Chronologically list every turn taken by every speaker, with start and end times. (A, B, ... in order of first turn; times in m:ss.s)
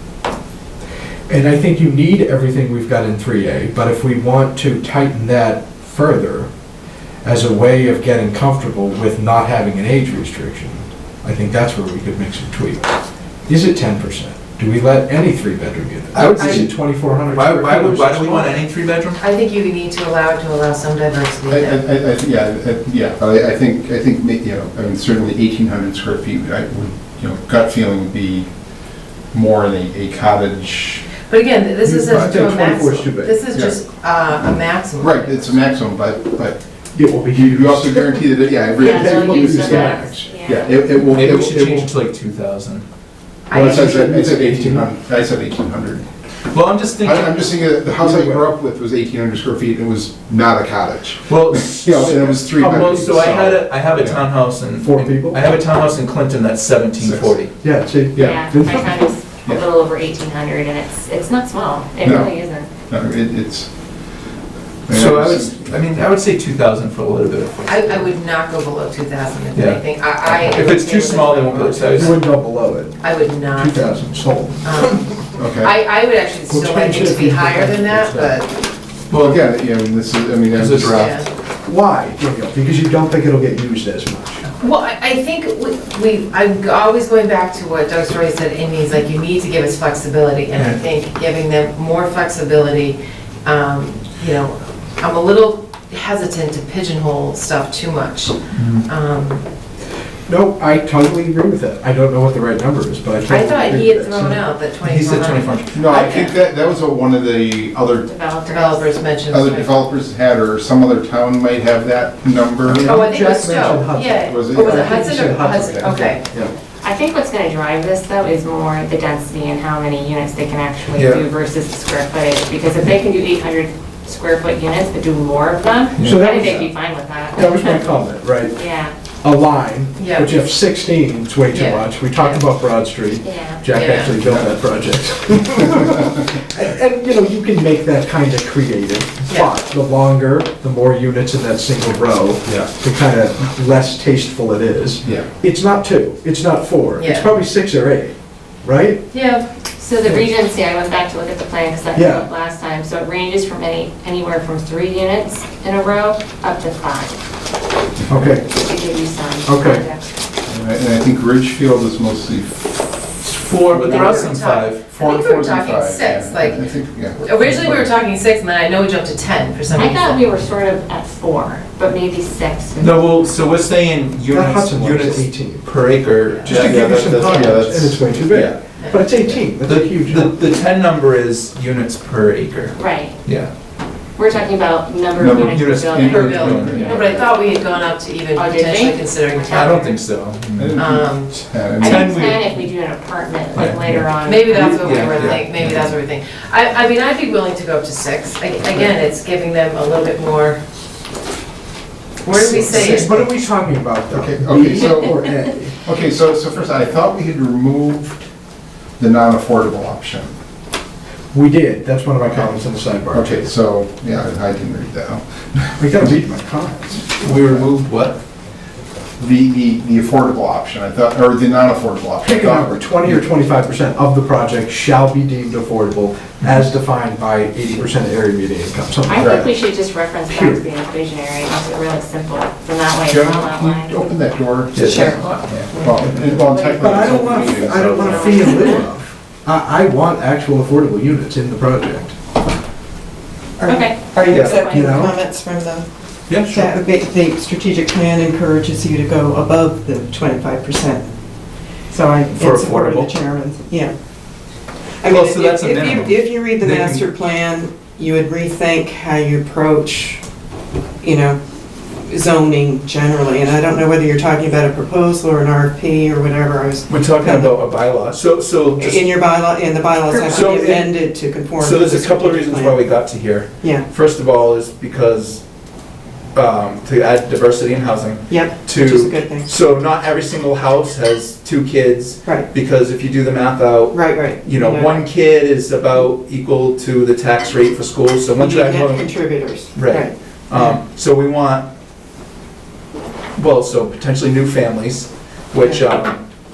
0:01.3-0:06.5 A
0:07.2-0:13.0 A
0:13.5-0:18.4 A
0:16.1-0:16.7 B
0:16.3-0:16.6 C
0:17.3-0:19.2 B
0:19.2-0:21.8 C
0:21.5-0:28.5 D
0:29.3-0:31.1 D
0:31.2-0:35.6 C
0:31.8-0:33.4 A
0:35.0-0:36.6 D
0:37.0-0:38.2 A
0:37.4-0:41.9 D
0:38.7-0:40.9 E
0:38.8-0:40.2 A
0:41.0-0:42.8 B
0:43.5-0:43.8 C
0:43.5-0:44.9 A
0:43.6-0:46.0 D
0:46.5-0:47.4 B
0:47.0-0:52.8 D
0:47.9-0:48.5 A
0:51.3-0:57.5 B
0:52.4-0:53.7 A
0:54.7-0:55.4 A
0:57.0-0:57.4 D
0:57.6-0:59.1 A
0:58.2-1:02.7 E
1:02.0-1:02.3 D
1:02.9-1:03.7 D
1:04.9-1:05.8 D
1:04.9-1:08.1 B
1:07.7-1:12.2 C
1:09.5-1:12.2 B
1:12.0-1:15.0 A
1:13.0-1:13.9 C
1:14.6-1:18.6 C
1:15.4-1:15.7 D
1:16.5-1:18.4 A
1:19.1-1:19.5 B
1:19.2-1:21.1 D
1:20.5-1:21.2 B
1:21.0-1:21.3 C
1:21.6-1:24.4 A
1:24.4-1:39.4 C
1:30.6-1:30.8 B
1:38.5-1:38.9 B
1:40.3-1:44.4 A
1:43.2-1:46.3 C
1:44.8-1:46.3 B
1:45.7-1:48.1 D
1:48.1-1:49.0 E
1:48.5-1:49.8 C
1:49.3-1:53.0 D
1:52.7-1:56.5 A
1:52.8-1:56.2 C
1:54.2-1:54.8 D
1:56.8-2:07.9 E
2:00.9-2:01.2 B
2:06.0-2:06.6 B
2:06.0-2:06.7 A
2:07.3-2:08.6 A
2:08.6-2:08.9 E
2:09.2-2:29.0 A
2:10.0-2:10.3 C
2:11.5-2:12.4 C
2:13.2-2:13.7 E
2:13.7-2:14.2 C
2:14.2-2:14.5 D
2:27.0-2:27.3 C
2:29.1-2:29.5 C
2:29.8-2:37.2 E
2:30.0-2:30.3 A
2:32.0-2:32.3 A
2:38.1-2:38.5 A
2:38.4-2:40.1 E
2:39.5-2:39.8 A
2:40.5-2:43.1 D
2:43.2-2:44.9 B
2:43.7-2:50.2 C
2:43.8-2:47.5 D
2:47.5-2:47.8 B
2:49.8-2:53.1 E
2:52.8-2:58.6 B
2:54.3-2:55.7 A
2:56.3-2:56.7 C
2:56.4-3:00.3 A
2:58.8-2:59.1 C
2:59.5-3:03.5 B
3:02.8-3:03.2 E
3:04.2-3:07.3 E
3:05.2-3:07.0 D
3:05.4-3:07.1 B
3:06.2-3:09.9 C
3:08.4-3:09.8 E
3:09.5-3:10.8 B
3:10.6-3:12.1 D
3:10.8-3:11.4 C
3:11.8-3:12.7 B
3:11.8-3:15.1 E
3:13.5-3:15.9 B
3:14.2-3:20.6 C
3:22.2-3:23.3 C
3:22.4-3:25.8 A
3:24.1-3:25.3 D
3:25.8-3:28.2 D
3:29.0-3:30.3 D
3:31.3-3:33.5 A
3:33.1-3:35.7 D
3:35.8-3:37.2 A
3:37.2-3:38.2 B
3:37.2-3:37.7 D
3:39.2-3:43.2 D
3:42.2-3:49.5 A
3:49.1-3:54.1 E
3:49.2-3:49.4 D
3:50.3-3:50.6 A
3:53.1-3:58.5 D
3:54.7-3:55.4 B
3:54.9-3:55.2 F
3:55.0-3:55.4 E
3:56.0-4:02.1 A
3:56.4-3:58.8 E
3:57.7-3:58.2 B
3:58.4-3:58.8 F
4:03.6-4:11.1 F
4:03.7-4:05.0 E
4:04.2-4:04.6 B
4:04.7-4:05.1 A
4:06.3-4:06.7 B
4:11.9-4:14.0 F
4:12.3-4:13.1 B
4:15.0-4:20.2 F
4:15.1-4:17.0 B
4:21.0-4:21.4 F
4:22.0-4:27.6 F
4:26.9-4:29.1 B
4:28.8-4:32.9 F
4:30.1-4:31.0 B
4:31.6-4:35.4 B
4:33.6-4:33.9 F
4:36.4-4:49.2 B
4:38.3-4:39.5 F
4:43.9-4:45.1 F
4:48.4-4:50.8 F
4:49.7-4:51.7 B
4:53.4-4:56.2 B